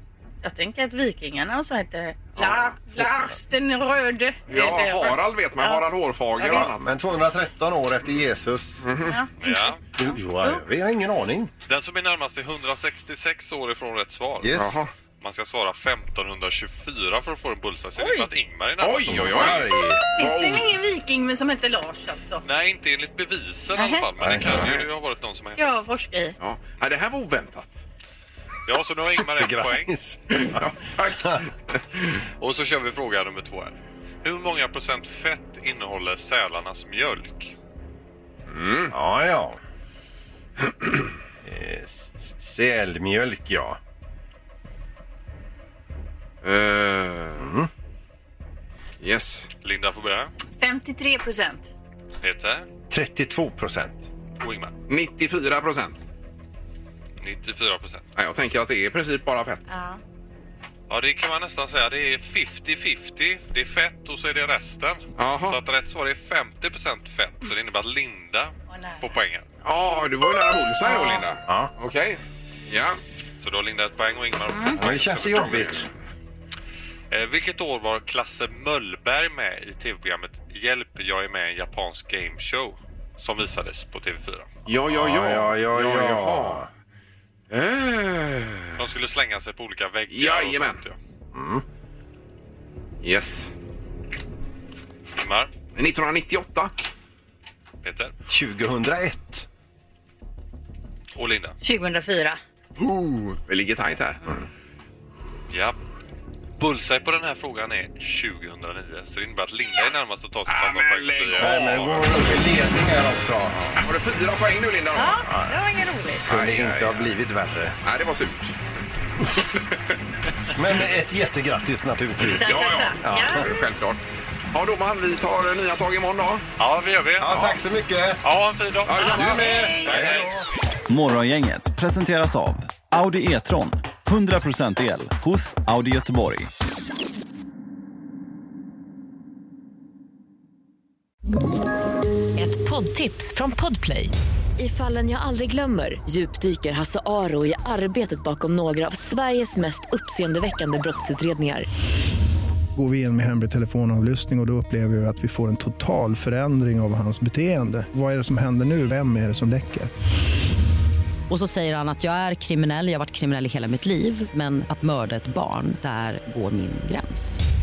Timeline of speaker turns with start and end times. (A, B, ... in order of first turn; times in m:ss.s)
0:00.4-0:05.8 A
0:02.4-0:02.7 B
0:04.5-0:06.9 B
0:06.4-0:06.7 A
0:06.5-0:08.8 C
0:08.8-0:09.2 B
0:09.0-0:10.6 A
0:09.4-0:09.8 D
0:10.0-0:11.5 C
0:11.7-0:14.5 D
0:14.4-0:14.8 C
0:14.5-0:14.9 B
0:15.2-0:19.5 D
0:18.0-0:18.3 A
0:18.8-0:20.7 B
0:19.1-0:20.0 C
0:20.2-0:22.4 A
0:22.4-0:25.6 D
0:23.7-0:24.0 A
0:24.2-0:24.6 C
0:24.4-0:24.9 B
0:25.6-0:26.4 A
0:26.4-0:27.8 B
0:28.7-0:29.9 D
0:29.0-0:30.7 C
0:30.3-0:31.5 B
0:32.4-0:37.6 D
0:38.5-0:38.9 B
0:38.9-0:39.6 C
0:41.4-0:43.8 C
0:46.4-0:47.5 B
0:47.4-0:47.7 C
0:49.0-0:49.5 B
0:49.6-0:50.3 D
0:50.6-0:51.6 A
0:52.2-0:52.7 D
0:52.9-0:54.0 C
0:54.4-0:54.8 D
0:54.9-0:56.0 B
0:57.2-0:58.1 D
0:58.2-0:59.6 B
0:59.7-1:00.0 A
1:00.9-1:09.4 D
1:05.2-1:05.6 B
1:08.7-1:09.2 A
1:09.6-1:13.0 B
1:10.9-1:11.2 A
1:13.4-1:15.8 D
1:14.5-1:14.8 A
1:14.8-1:15.9 C
1:15.4-1:15.8 B
1:17.1-1:24.5 D
1:24.7-1:26.7 B
1:24.9-1:26.7 C
1:27.5-1:28.8 B
1:28.8-1:31.0 D
1:30.1-1:30.8 B
1:31.3-1:31.6 C
1:33.0-1:33.5 B
1:35.2-1:35.5 D
1:35.8-1:36.7 B
1:37.8-1:38.2 D
1:38.3-1:39.5 C
1:41.2-1:41.6 D
1:41.6-1:42.4 A
1:42.8-1:44.2 B
1:45.5-1:45.8 D
1:46.6-1:51.8 D
1:50.5-1:52.4 B
1:51.4-1:53.6 C
1:53.6-1:55.3 B
1:55.0-1:56.3 A
1:56.3-1:57.8 C
1:56.3-1:57.1 B
1:57.8-1:58.6 B
2:00.5-2:02.5 C
2:02.3-2:03.6 A
2:02.4-2:04.0 B
2:03.0-2:03.5 C
2:04.5-2:06.4 B
2:06.6-2:07.5 D
2:07.2-2:08.2 C
2:08.2-2:10.3 D
2:08.9-2:10.1 B
2:09.0-2:10.1 A
2:09.2-2:10.4 C
2:10.9-2:16.5 E
2:22.4-2:31.7 F
2:32.8-2:39.9 G
2:41.3-2:47.4 H